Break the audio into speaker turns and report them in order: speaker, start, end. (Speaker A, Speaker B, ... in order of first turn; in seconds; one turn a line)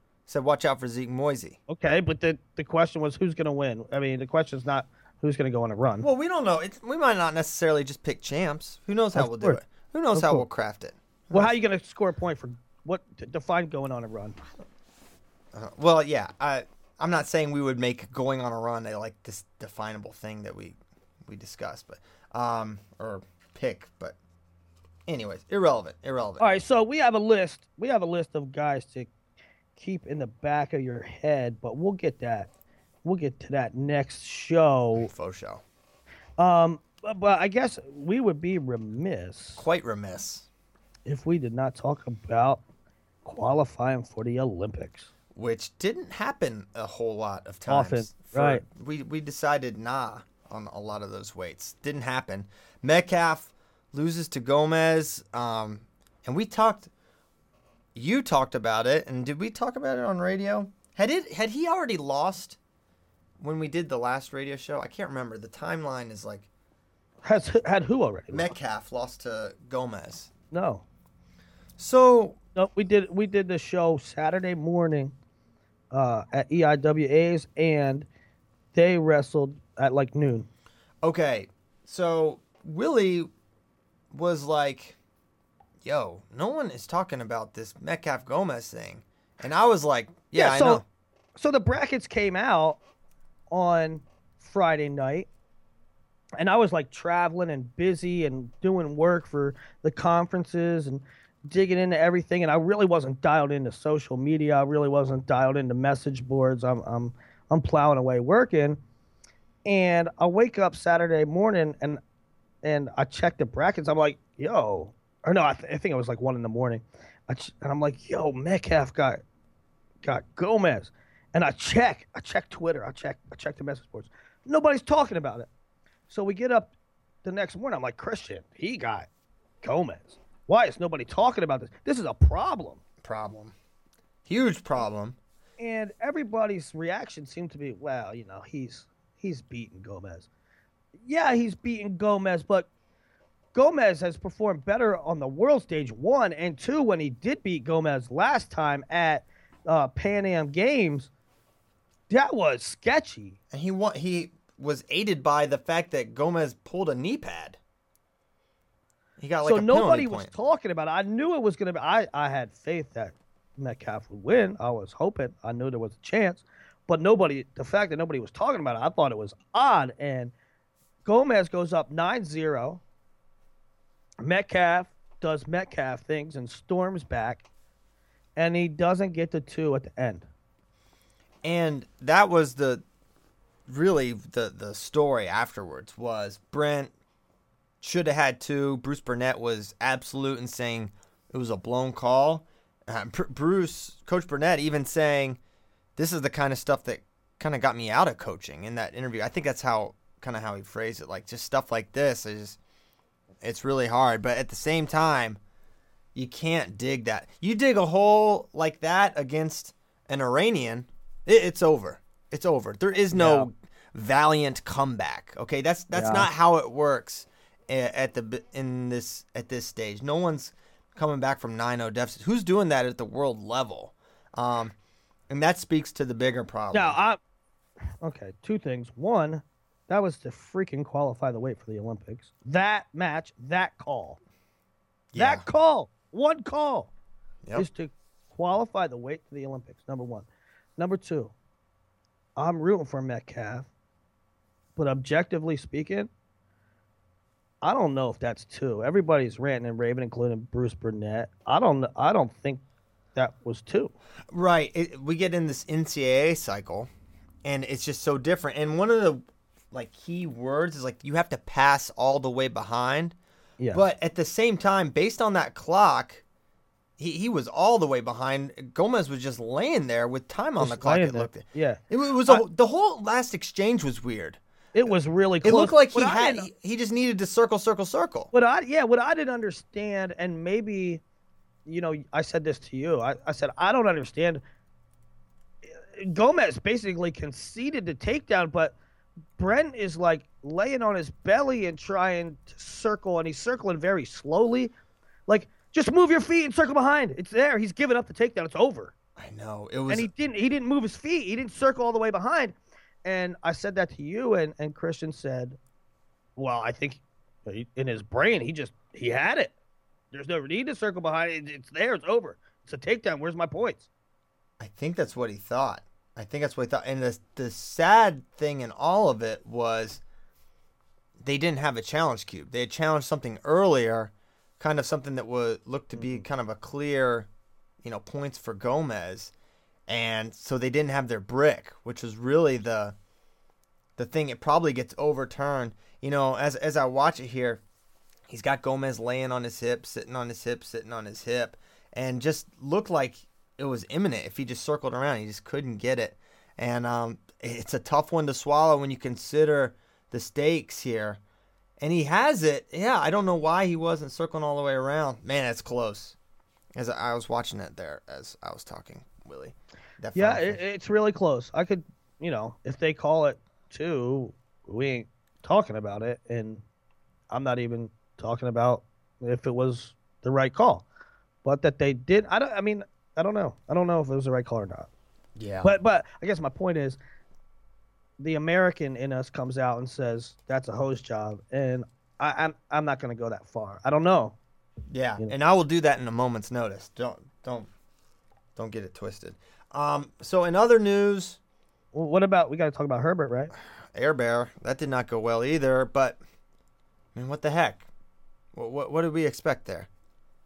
Speaker A: 0.3-1.6
Speaker B: 1.7-6.1
Speaker A: 6.0-11.5
Speaker B: 9.2-9.6
Speaker B: 10.1-10.4
Speaker B: 11.3-14.4
Speaker A: 15.5-24.1
Speaker A: 25.1-26.6
Speaker B: 26.4-29.1
Speaker B: 29.8-32.5
Speaker B: 33.0-35.1
Speaker A: 35.0-35.6
Speaker B: 36.4-39.6
Speaker A: 39.6-40.5
Speaker B: 41.0-42.6
Speaker B: 43.2-45.1
Speaker A: 45.3-56.9
Speaker B: 47.7-48.6
Speaker A: 57.9-62.6
Speaker A: 63.4-66.5
Speaker B: 67.2-68.5
Speaker A: 68.3-70.3
Speaker B: 70.5-70.8
Speaker A: 71.8-72.4
Speaker B: 72.5-75.1
Speaker B: 75.9-78.1
Speaker B: 78.7-80.5
Speaker A: 81.0-83.3
Speaker A: 84.1-85.0
Speaker A: 85.8-90.8
Speaker B: 90.3-90.8
Speaker B: 91.4-92.8
Speaker B: 93.5-95.3
Speaker B: 96.4-108.8
Speaker B: 109.6-112.0
Speaker B: 112.6-119.2
Speaker B: 120.0-125.5
Speaker B: 126.1-126.7
Speaker B: 127.2-129.1
Speaker B: 129.6-132.8
Speaker A: 133.0-133.5
Speaker A: 134.2-135.2
Speaker B: 135.6-140.3
Speaker B: 141.0-142.7
Speaker B: 143.5-151.1
Speaker B: 152.1-153.4
Speaker A: 153.5-157.6
Speaker A: 159.2-160.3
Speaker B: 159.4-170.3
Speaker B: 171.0-172.8
Speaker B: 174.2-177.4
Speaker B: 178.3-180.3
Speaker A: 181.4-182.8
Speaker A: 183.7-186.9
Speaker A: 187.8-195.4
Speaker A: 195.9-202.6
Speaker A: 203.4-205.4
Speaker A: 206.1-224.7
Speaker B: 213.1-213.5
Speaker B: 215.9-216.3
Speaker A: 225.3-227.0
Speaker B: 226.7-227.2
Speaker B: 228.0-234.2
Speaker A: 235.1-235.4
Speaker B: 235.2-236.9
Speaker B: 237.5-241.3
Speaker B: 242.3-243.7
Speaker B: 244.8-246.1
Speaker B: 247.6-252.6
Speaker B: 253.1-253.9
Speaker A: 254.3-256.9
Speaker A: 257.4-263.1
Speaker A: 263.7-266.2
Speaker A: 267.0-274.9
Speaker B: 270.6-272.4
Speaker B: 274.7-276.5
Speaker A: 275.4-278.3
Speaker B: 278.3-281.0
Speaker B: 281.6-284.4
Speaker B: 285.7-288.7
Speaker B: 289.4-294.7
Speaker B: 295.3-298.9
Speaker A: 299.1-300.1
Speaker B: 299.9-305.6
Speaker B: 306.4-309.5
Speaker B: 310.1-313.9
Speaker A: 314.6-320.0
Speaker A: 321.2-327.3
Speaker B: 325.9-326.2
Speaker A: 327.8-329.3
Speaker A: 329.9-332.9
Speaker A: 334.0-337.6
Speaker A: 338.3-351.2
Speaker A: 351.8-356.1
Speaker A: 356.7-360.6
Speaker B: 360.1-366.6
Speaker B: 367.3-370.8
Speaker B: 371.4-374.9
Speaker A: 375.4-375.7
Speaker B: 375.6-377.0
Speaker B: 378.2-384.4
Speaker A: 384.9-387.7
Speaker A: 388.6-391.4
Speaker B: 391.9-393.5
Speaker A: 393.6-396.2
Speaker A: 397.1-397.9
Speaker A: 398.5-399.9